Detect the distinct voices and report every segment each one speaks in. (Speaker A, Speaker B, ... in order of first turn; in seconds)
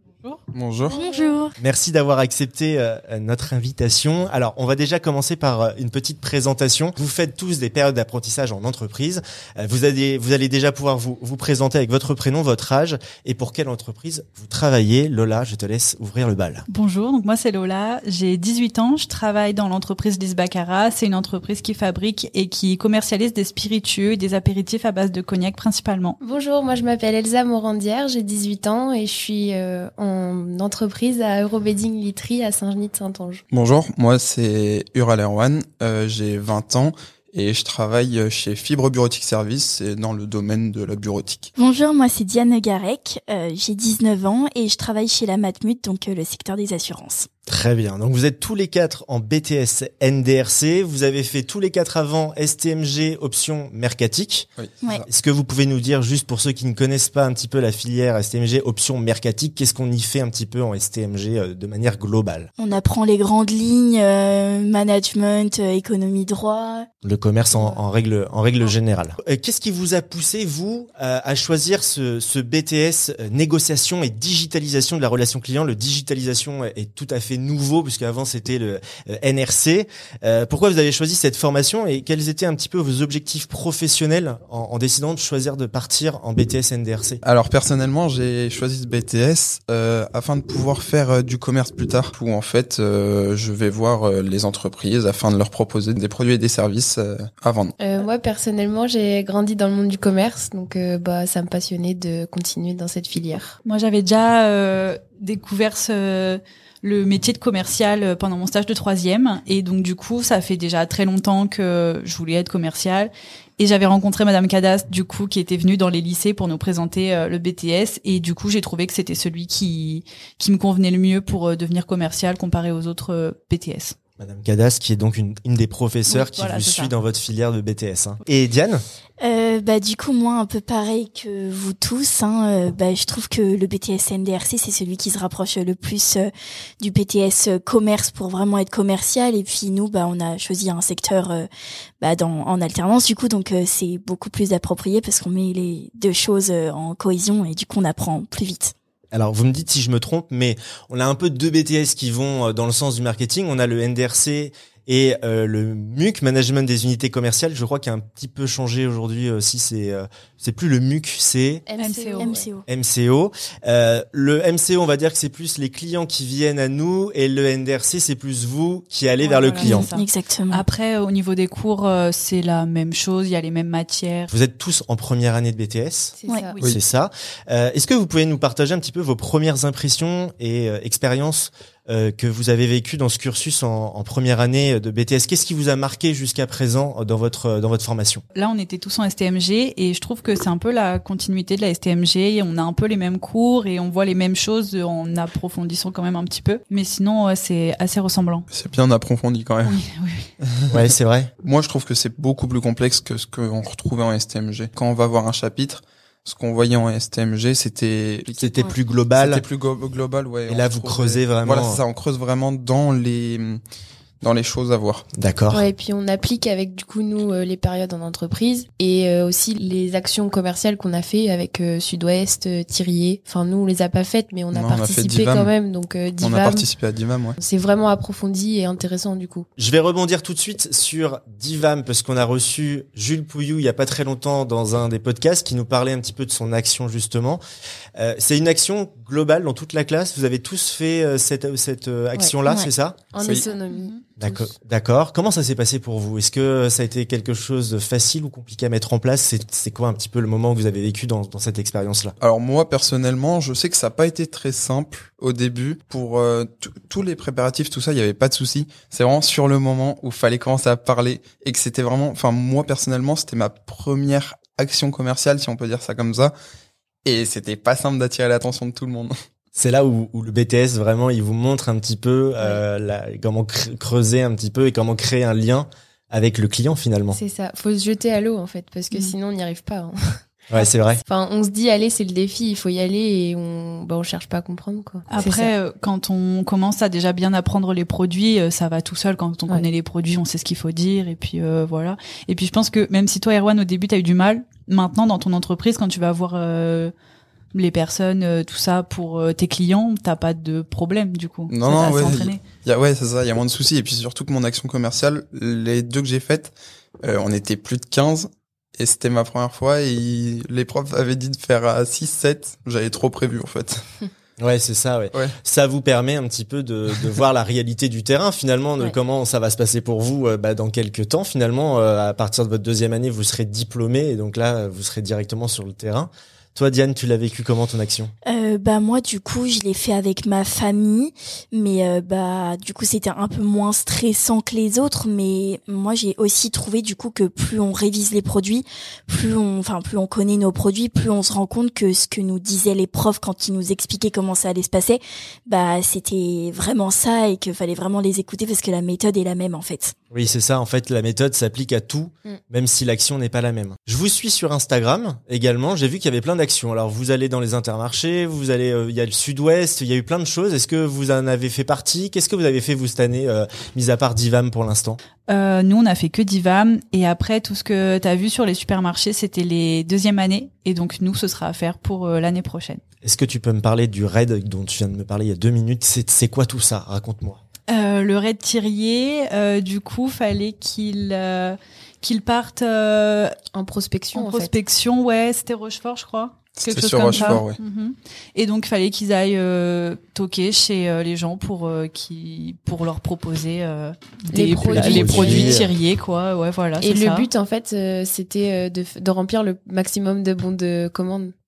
Speaker A: 0.2-1.2, 16.7-26.2, 103.6-124.0, 126.1-126.9, 161.8-162.4, 169.2-174.3, 188.3-198.5, 199.6-200.3, 243.7-244.0, 285.1-296.9, 297.5-302.4, 365.3-372.8, 377.7-383.4, 384.1-397.3
Speaker B: 0.5-0.9, 33.5-41.5, 54.6-55.0, 87.2-97.7, 198.5-199.8, 200.4-200.9, 201.4-213.6, 214.2-215.1, 224.5-225.5, 226.2-227.4, 243.2-243.5, 252.2-266.3, 267.0-269.1, 301.5-313.8, 386.6-387.6
Speaker C: 0.9-1.6, 41.5-47.3, 62.6-66.9, 129.2-141.5, 142.0-148.7, 162.2-162.6, 169.6-170.6, 328.2-349.9
Speaker D: 1.6-16.6, 47.5-54.5, 55.0-62.5, 67.0-87.2, 124.2-128.8, 149.1-161.6, 162.7-169.9, 174.3-188.2, 200.7-201.3, 208.4-209.4, 210.5-211.8, 215.1-215.6, 229.6-237.4, 238.0-243.0, 244.2-252.1, 269.5-277.2, 280.5-281.0, 314.4-328.1, 350.1-365.0, 373.0-377.4, 394.7-395.7
Speaker E: 26.2-33.4, 97.8-103.6, 161.7-162.5, 176.2-176.6, 215.5-226.7, 227.4-229.5, 243.1-244.5, 277.1-285.5, 383.5-384.5, 387.1-387.4, 394.3-395.6, 396.8-401.3